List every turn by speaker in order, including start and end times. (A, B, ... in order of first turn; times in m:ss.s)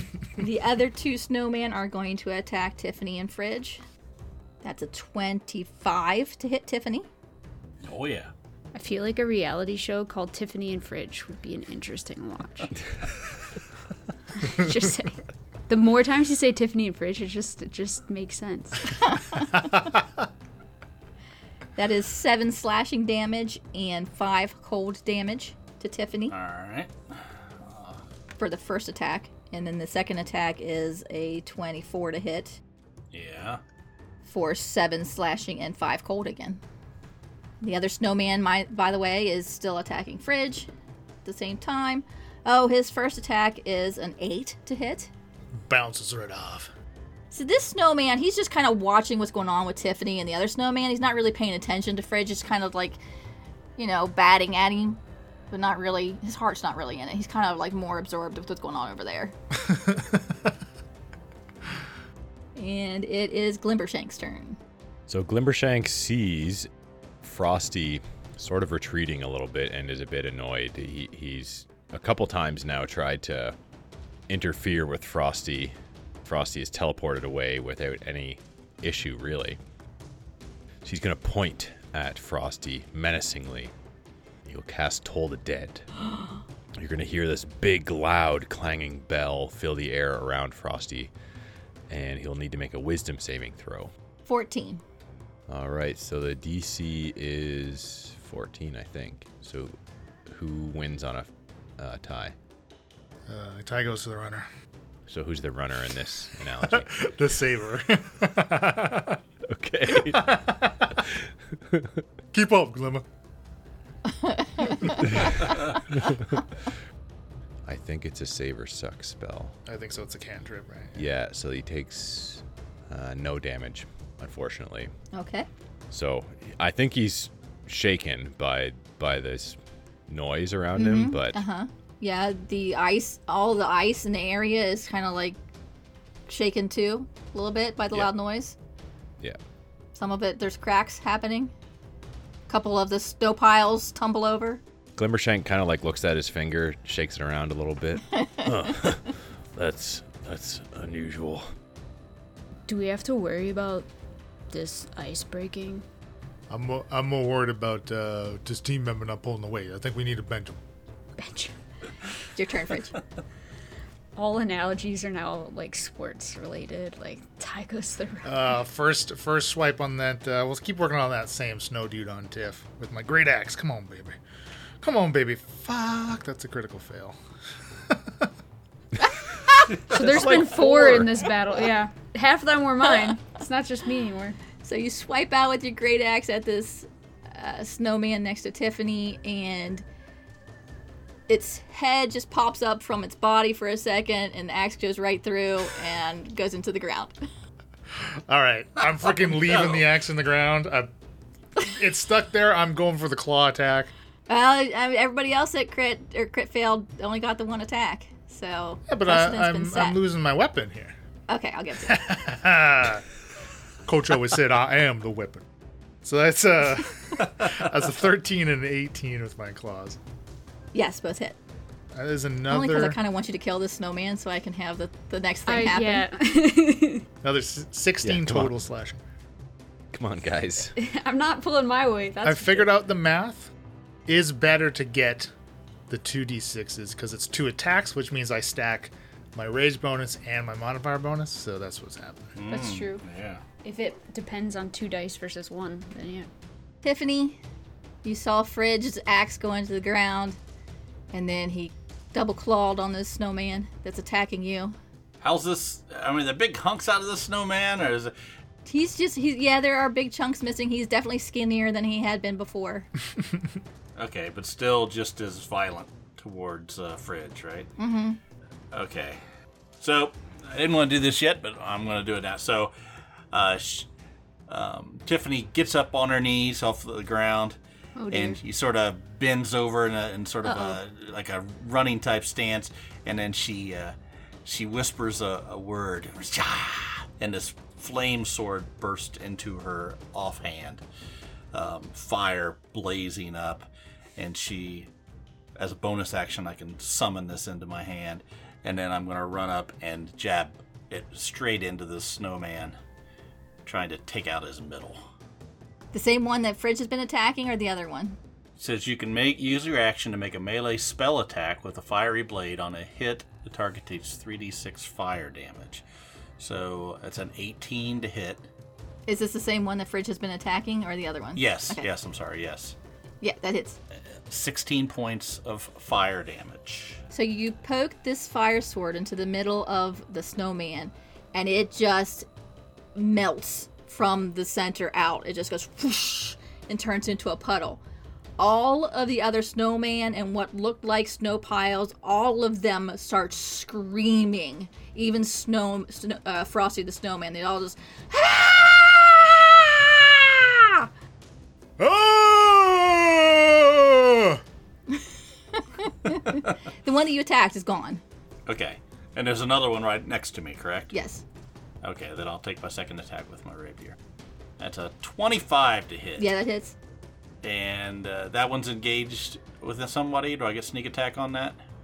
0:00.4-0:03.8 A
0:04.6-0:07.1 A
0:07.8-0:08.3 B
0:08.7-0:12.7 C
0:14.3-0:19.2 C
0:19.1-0:19.4 A
0:19.5-0:20.0 D
0:21.8-0:26.3 A
0:26.3-0:28.0 B
0:28.4-0:32.6 A
0:33.1-0:33.6 B
0:34.2-0:36.6 A
0:37.6-0:40.7 A
0:41.2-0:45.1 A
0:45.6-0:46.7 D
0:47.3-0:53.0 A
0:53.8-0:55.0 A
0:55.5-0:59.3 A
0:59.6-1:00.5 D
1:02.6-1:04.6 A
1:05.1-1:06.7 E
1:07.2-1:13.6 E
1:14.3-1:19.6 E
1:20.8-1:23.7 E
1:24.4-1:25.8 E
1:26.8-1:31.1 E
1:31.9-1:33.9 E
1:34.2-1:34.8 A
1:35.5-1:39.8 E
1:40.3-1:42.3 E
1:43.3-1:44.4 D
1:45.1-1:46.9 E
1:46.7-1:49.2 D
1:49.5-1:50.5 E
1:49.9-1:50.9 D
1:52.3-1:53.0 D
1:54.1-1:55.2 A
1:57.6-1:59.5 E
1:59.6-2:01.0 D
2:00.9-2:04.9 E
2:05.1-2:05.5 A
2:05.9-2:11.4 E
2:10.7-2:15.4 A
2:16.3-2:18.5 A
2:19.9-2:21.5 A
2:22.5-2:24.6 A
2:25.0-2:28.2 E
2:28.4-2:31.5 F
2:32.7-2:33.9 C
2:34.5-2:35.8 C
2:36.5-2:40.6 D
2:41.2-2:41.5 C
2:42.3-2:43.0 A
2:44.2-2:48.5 C
2:48.2-2:54.2 D
2:54.8-2:57.2 D
2:57.8-2:58.3 D
2:59.7-3:00.0 B
2:59.8-3:04.4 C
2:59.9-3:01.1 D
3:04.6-3:09.8 A
3:11.3-3:17.1 A
3:17.9-3:20.9 D
3:21.6-3:23.9 D
3:24.3-3:30.0 A
3:28.9-3:30.9 D
3:31.3-3:32.0 A
3:31.8-3:33.0 D
3:33.8-3:35.4 D
3:36.0-3:40.0 D
3:40.7-3:41.4 A
3:41.9-3:43.0 D
3:42.5-3:46.0 A
3:45.4-3:47.0 C
3:47.2-3:49.0 D
3:48.0-3:48.5 E
3:49.9-3:50.7 E
3:50.8-3:52.7 C
3:52.2-3:53.5 D
3:54.1-3:55.3 D
3:55.9-4:02.4 D
4:02.3-4:03.4 B
4:02.5-4:03.0 C
4:03.6-4:06.3 C
4:06.8-4:07.4 A
4:08.0-4:10.4 A
4:11.1-4:14.8 A
4:15.2-4:18.1 B
4:18.6-4:22.9 A
4:24.0-4:27.7 B
4:27.8-4:28.2 A
4:28.7-4:29.2 B
4:29.8-4:32.7 B
4:33.3-4:33.9 B
4:34.5-4:37.6 B
4:38.0-4:38.4 C
4:38.1-4:50.8 B
4:40.4-4:40.8 C
4:51.5-4:54.9 B
4:55.6-5:02.8 B
5:03.6-5:05.0 B
5:05.9-5:08.2 A
5:08.6-5:15.8 B
5:16.4-5:18.5 B
5:19.1-5:21.9 A
5:21.3-5:22.8 B
5:23.2-5:23.8 A
5:24.3-5:27.0 B
5:27.1-5:32.3 A
5:32.9-5:37.8 A
5:38.4-5:50.9 A
5:51.8-5:54.4 D
5:55.6-5:58.0 A
5:58.4-6:00.9 B
6:00.9-6:01.2 A
6:01.8-6:04.0 B
6:04.6-6:06.3 B
6:06.2-6:06.8 A
6:07.4-6:11.6 B